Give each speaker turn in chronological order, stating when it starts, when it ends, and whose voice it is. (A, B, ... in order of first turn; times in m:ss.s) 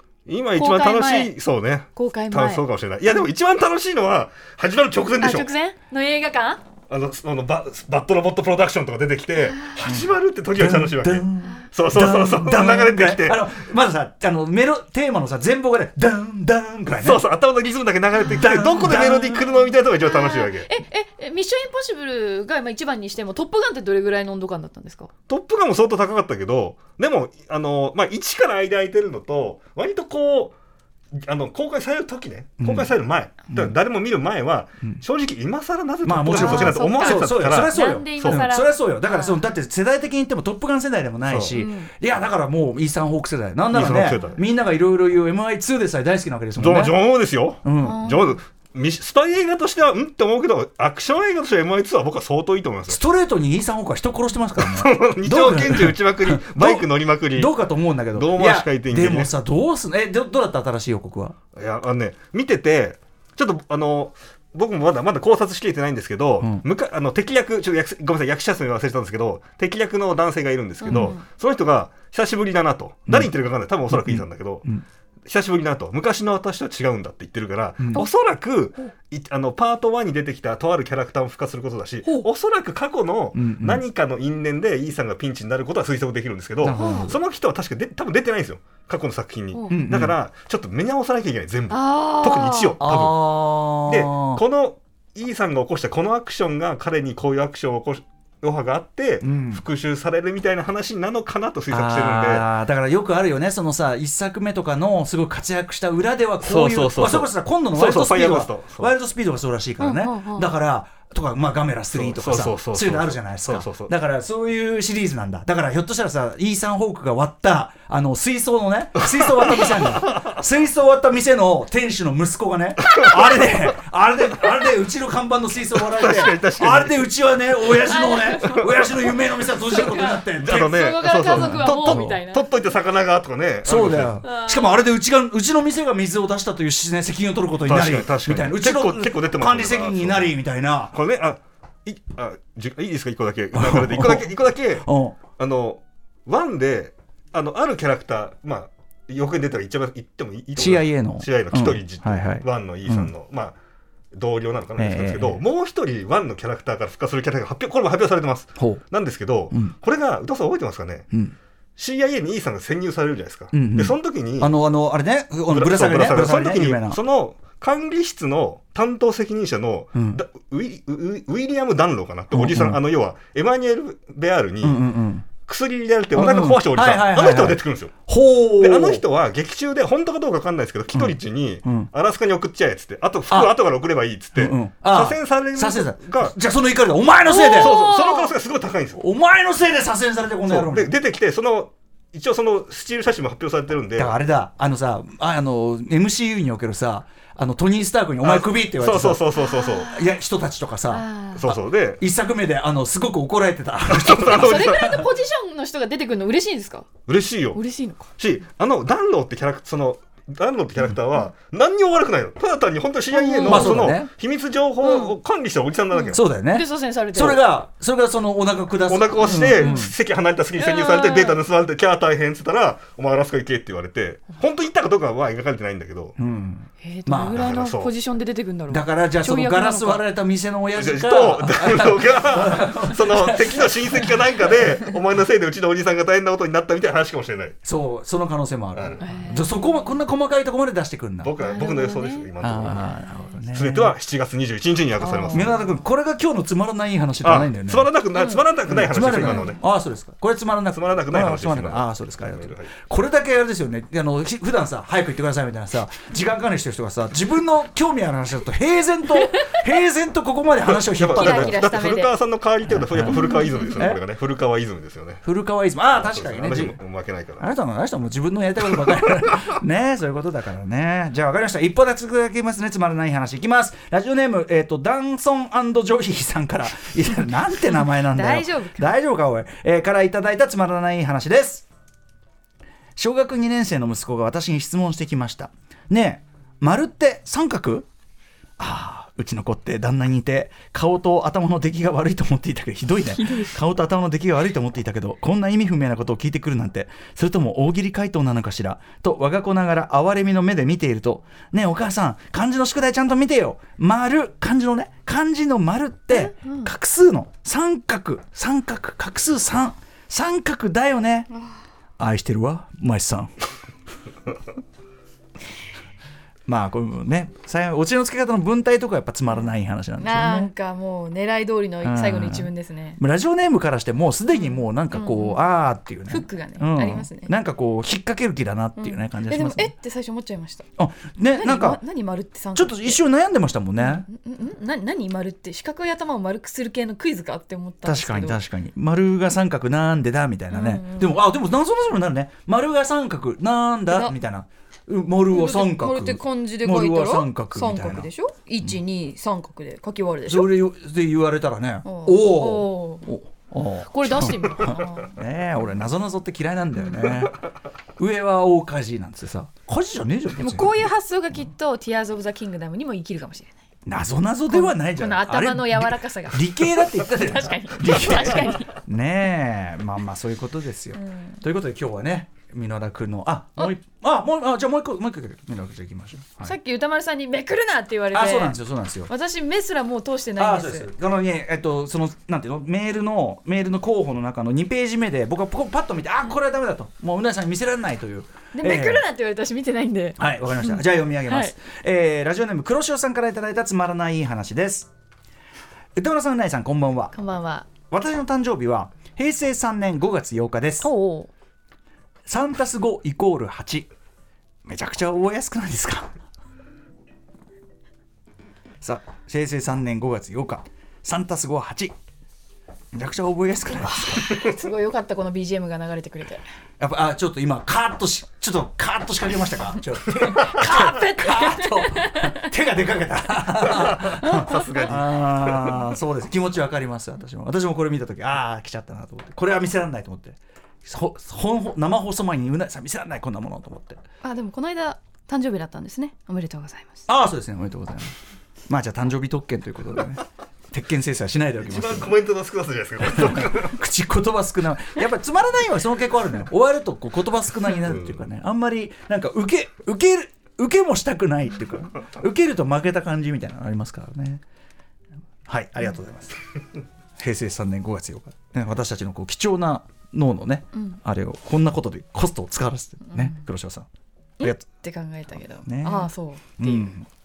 0:00.3-0:05.5 A
0:00.5-0:01.4 B
0:02.0-0:02.7 B
0:05.2-0:06.6 B
0:06.9-0:13.5 A
0:09.4-0:09.7 B
0:09.8-0:17.2 C
0:17.0-0:20.7 A
0:18.3-0:19.3 C
0:18.8-0:25.1 B
0:25.3-0:30.6 A
0:31.2-0:38.5 A
0:32.6-0:32.9 C
0:33.5-0:33.8 C
0:36.0-0:47.0 C
0:36.3-0:39.4 B
0:41.2-0:41.6 A
0:41.5-0:41.9 B
0:43.7-0:44.4 A
0:43.9-0:44.3 B
0:46.6-0:53.0 A
0:47.6-0:48.0 C
0:47.8-0:48.4 B
0:52.9-1:01.4 C
0:54.6-0:57.6 A
0:58.1-0:59.3 A
1:01.6-1:14.7 A
1:06.4-1:06.6 C
1:10.8-1:11.2 B
1:13.1-1:13.3 C
1:13.9-1:14.8 C
1:15.3-1:42.5 A
1:17.8-1:18.1 C
1:23.3-1:23.8 C
1:26.6-1:27.2 C
1:26.7-1:27.2 B
1:29.5-1:29.9 B
1:29.7-1:30.2 C
1:31.7-1:32.8 B
1:32.8-1:34.4 C
1:39.2-1:39.6 C
1:41.7-2:12.2 C
1:46.4-1:48.9 A
1:49.8-1:50.5 B
1:51.9-1:53.9 A
1:59.4-2:00.2 A
2:05.8-2:07.1 A
2:07.9-2:08.6 B
2:08.5-2:08.9 A
2:09.5-2:12.7 B
2:10.0-2:14.2 A
2:13.6-2:21.0 C
2:14.2-2:14.7 B
2:17.6-2:20.4 A
2:20.9-2:33.6 A
2:23.5-2:25.2 C
2:30.6-2:33.1 C
2:34.1-2:41.1 A
2:34.8-2:35.4 C
2:38.6-2:38.8 C
2:39.5-2:39.8 C
2:41.8-2:44.6 A
2:43.5-2:47.0 C
2:45.5-2:54.8 A
2:49.9-2:50.2 C
2:52.3-2:52.8 C
2:54.6-2:55.3 C
2:55.4-2:57.9 A
2:56.1-2:59.0 C
2:58.6-3:06.4 A
3:00.9-3:01.9 C
3:03.3-3:03.6 C
3:04.3-3:07.8 C
3:07.3-3:08.4 B
3:07.6-3:09.0 A
3:09.0-3:10.9 C
3:10.4-3:14.2 A
3:14.0-3:19.2 C
3:18.2-3:19.9 A
3:19.4-3:20.1 B
3:19.9-3:25.0 C
3:20.9-3:21.5 B
3:21.3-3:22.0 A
3:23.9-3:25.1 A
3:24.3-3:26.9 B
3:27.1-3:27.6 A
3:27.5-3:28.1 B
3:28.2-3:36.2 A
3:33.1-3:33.8 B
3:33.4-3:34.1 C
3:34.8-3:35.2 B
3:35.9-3:37.5 B
3:36.1-3:39.9 C
3:38.9-3:46.2 A
3:39.5-3:39.9 B
3:40.5-3:41.4 B
3:46.2-3:47.4 C
3:46.8-3:50.0 B
3:47.3-3:48.0 A
3:48.7-3:54.2 C
3:50.8-3:57.6 A
3:51.1-3:51.3 B
3:57.6-4:01.3 C
3:58.8-3:59.0 A
3:59.0-3:59.9 B
4:01.2-4:02.9 A
4:01.4-4:02.3 B
4:02.4-4:04.0 C
4:03.5-4:05.6 A
4:05.0-4:05.6 B
4:05.3-4:07.9 C
4:07.2-4:09.6 A
4:08.1-4:08.5 B
4:08.7-4:21.6 C
4:10.7-4:12.7 A
4:20.6-4:25.2 A
4:21.0-4:22.2 B
4:22.7-4:24.0 C
4:23.2-4:23.6 B
4:25.2-4:26.8 C
4:25.9-4:27.5 A
4:27.4-4:41.7 C
4:37.8-4:38.9 B
4:43.0-4:47.9 C
4:48.6-5:11.3 C
5:06.1-5:06.7 B
5:12.0-5:13.3 C
5:16.5-5:20.5 C
5:20.0-5:23.0 B
5:21.8-5:29.7 C
5:24.3-5:25.4 B
5:26.1-5:27.3 B
5:28.8-5:30.6 B
5:30.8-5:31.8 C
5:31.3-5:33.0 B
5:32.5-5:34.1 C
5:33.8-5:38.4 B
5:37.8-5:48.1 C
5:40.5-5:41.1 B
5:43.9-5:44.2 B
5:45.3-5:50.5 B
5:50.3-5:57.4 C
5:51.8-5:53.1 B
5:53.9-5:55.2 B
5:56.8-5:57.2 B
5:58.0-6:00.8 C
6:00.4-6:03.6 B
6:03.9-6:16.6 C
6:04.5-6:08.7 B
6:10.9-6:11.4 B
6:16.4-6:20.9 B
6:18.1-6:19.1 C
6:20.4-6:29.0 C
6:28.6-6:31.5 B
6:30.2-6:34.9 C
6:36.0-6:37.2 C
6:37.2-6:37.7 B
6:37.9-6:40.9 C
6:40.8-6:41.3 B
6:42.3-6:43.9 C
6:44.7-6:46.1 C
6:48.8-6:52.0 C
6:52.9-6:54.4 C
6:54.3-6:56.4 B
6:56.8-7:14.0 C
7:00.6-7:02.2 B
7:03.7-7:05.9 A
7:14.2-7:17.1 B
7:17.1-7:18.1 C
7:18.7-7:22.2 C
7:21.6-7:23.7 A
7:23.0-7:34.4 C
7:27.8-7:28.2 A
7:35.5-7:36.4 C
7:37.2-7:43.9 C
7:43.0-7:43.4 B
7:44.4-7:46.9 B
7:45.6-7:47.1 C